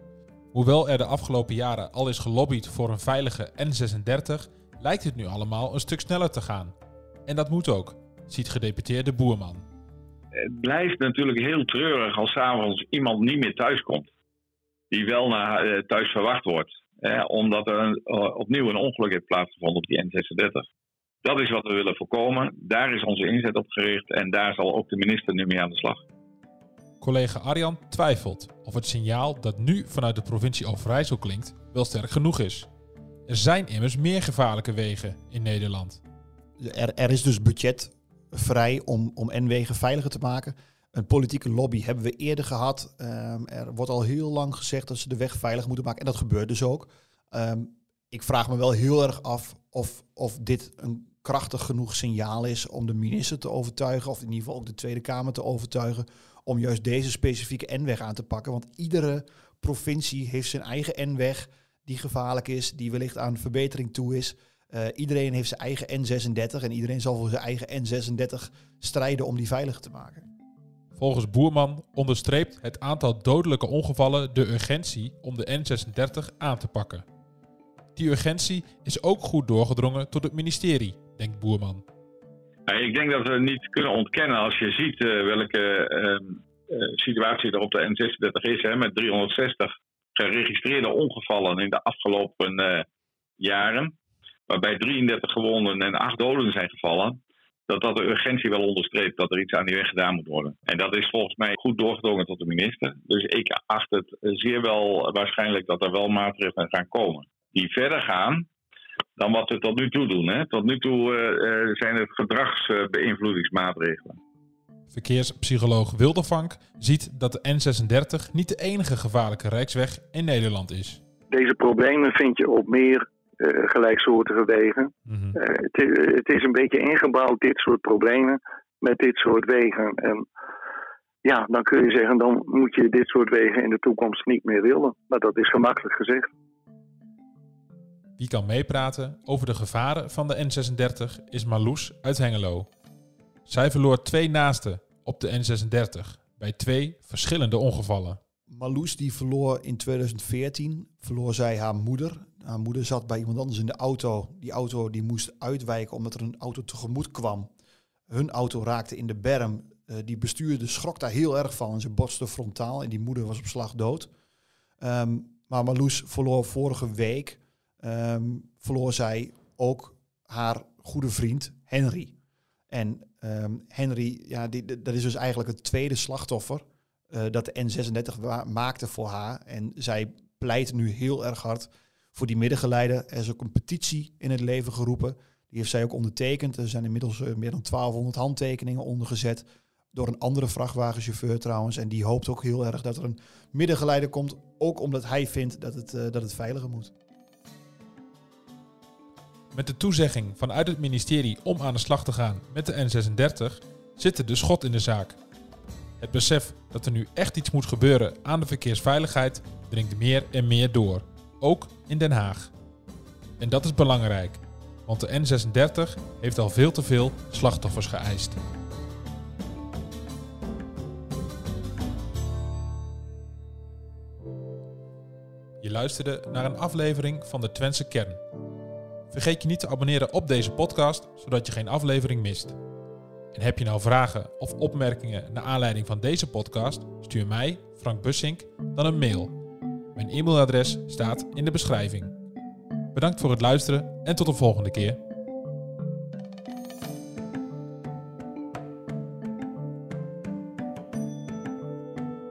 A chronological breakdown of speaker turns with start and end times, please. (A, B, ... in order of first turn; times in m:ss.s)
0:00.5-0:06.7 A
0:07.3-0:09.6 A
0:10.5-0:14.1 B
0:14.9-0:20.7 B
0:21.2-0:26.0 B
0:27.0-0:32.7 A
0:33.3-0:36.0 A
0:36.6-1:10.2 C
1:11.0-1:17.0 A
1:18.0-1:21.8 A
1:22.7-1:32.8 B
1:33.4-1:34.0 B
1:34.5-1:48.5 B
1:49.2-1:54.2 B
1:54.9-2:01.0 A
2:01.3-2:10.3 D
2:05.1-2:05.4 A
2:11.2-2:16.3 D
2:18.2-2:22.7 A
2:23.5-2:28.2 A
2:28.5-2:37.5 C
2:38.1-2:44.1 C
2:44.8-2:52.1 C
2:52.7-3:16.9 C
3:19.5-3:25.2 A
3:26.0-3:32.5 A
3:33.4-3:38.4 A
3:45.6-3:48.2 A
3:49.1-3:52.6 A
3:53.3-3:59.4 A
3:59.9-4:02.2 A
4:02.9-4:05.0 A